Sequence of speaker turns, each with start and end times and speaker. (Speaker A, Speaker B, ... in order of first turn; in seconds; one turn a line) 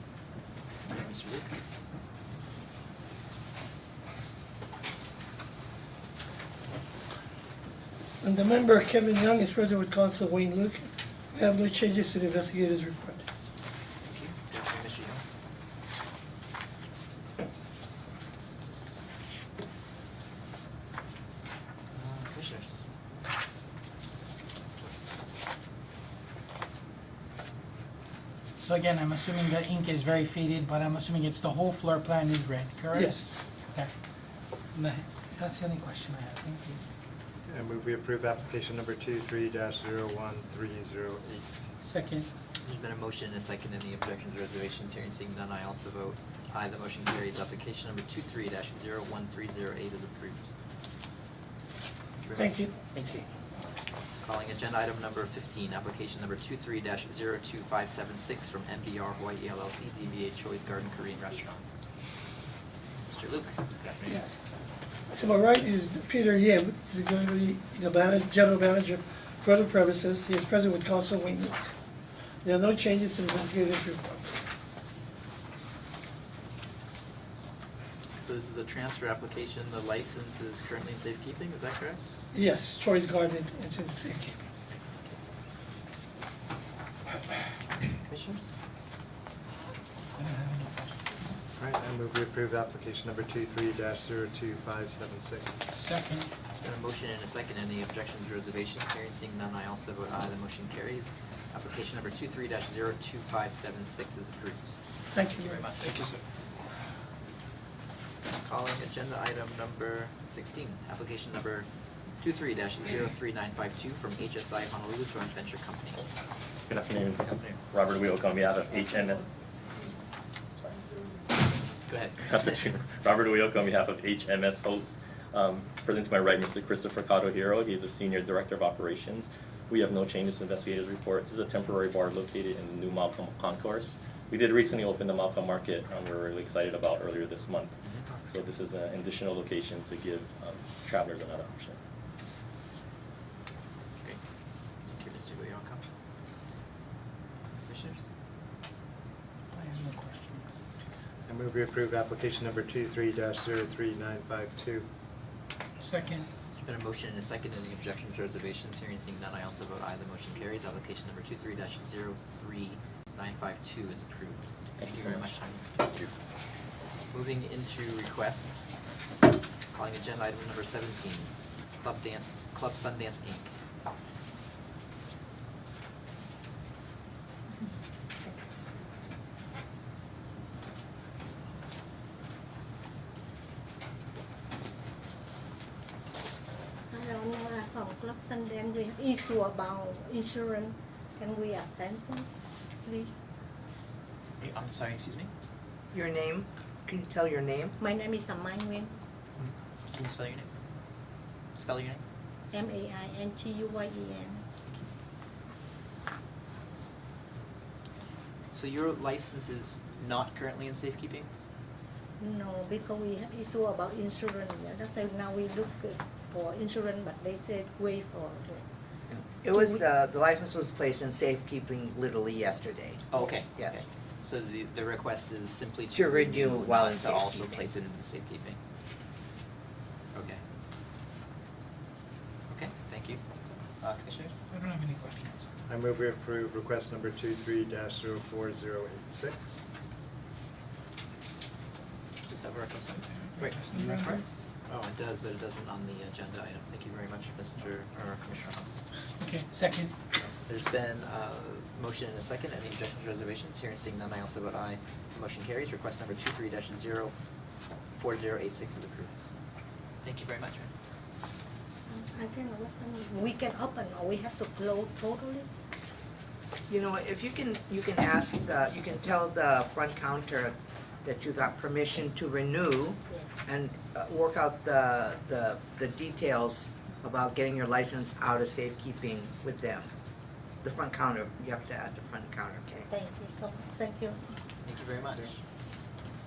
Speaker A: 0.8-1.5
Speaker B: 8.2-13.2
Speaker A: 14.0-15.2
Speaker A: 21.9-22.8
Speaker C: 28.6-33.9
Speaker B: 32.9-33.2
Speaker C: 34.7-36.8
Speaker D: 37.4-41.5
Speaker C: 41.8-42.3
Speaker A: 42.6-50.4
Speaker A: 52.2-52.7
Speaker B: 52.3-53.3
Speaker A: 54.2-61.6
Speaker A: 63.0-64.1
Speaker B: 64.0-64.3
Speaker B: 65.1-71.6
Speaker B: 72.4-74.2
Speaker A: 78.2-82.0
Speaker B: 82.3-84.4
Speaker A: 88.0-88.5
Speaker C: 90.2-90.7
Speaker D: 91.6-95.6
Speaker C: 95.7-96.3
Speaker A: 96.6-104.7
Speaker B: 105.1-105.7
Speaker A: 105.3-105.9
Speaker A: 108.4-111.7
Speaker A: 112.2-116.0
Speaker E: 116.7-119.2
Speaker A: 117.2-117.6
Speaker A: 121.9-122.6
Speaker E: 122.2-141.8
Speaker A: 144.9-145.8
Speaker A: 147.6-148.0
Speaker C: 149.5-150.4
Speaker D: 151.3-154.9
Speaker C: 155.8-156.3
Speaker A: 156.6-165.6
Speaker E: 164.8-166.1
Speaker A: 167.1-168.7
Speaker A: 169.7-171.3
Speaker A: 171.8-173.5
Speaker F: 186.9-192.3
Speaker F: 192.8-193.2
Speaker A: 194.4-195.3
Speaker G: 195.9-197.8
Speaker F: 197.8-198.9
Speaker A: 199.4-200.5
Speaker A: 201.5-202.0
Speaker F: 202.5-204.4
Speaker A: 208.5-211.3
Speaker F: 212.2-218.6
Speaker G: 219.1-223.8
Speaker F: 219.5-219.8
Speaker A: 223.1-228.6
Speaker G: 225.9-227.6
Speaker A: 230.1-230.4
Speaker A: 232.5-233.2
Speaker A: 233.8-234.4
Speaker C: 234.5-235.4
Speaker D: 235.7-239.6
Speaker A: 242.3-244.2
Speaker C: 243.4-244.2
Speaker A: 244.7-248.7
Speaker C: 249.2-249.9
Speaker A: 250.4-257.1
Speaker A: 257.9-259.1
Speaker A: 260.0-260.7
Speaker F: 261.9-265.7
Speaker G: 266.7-279.9
Speaker F: 273.1-273.4
Speaker G: 280.6-282.9
Speaker F: 282.9-284.2
Speaker A: 284.6-285.3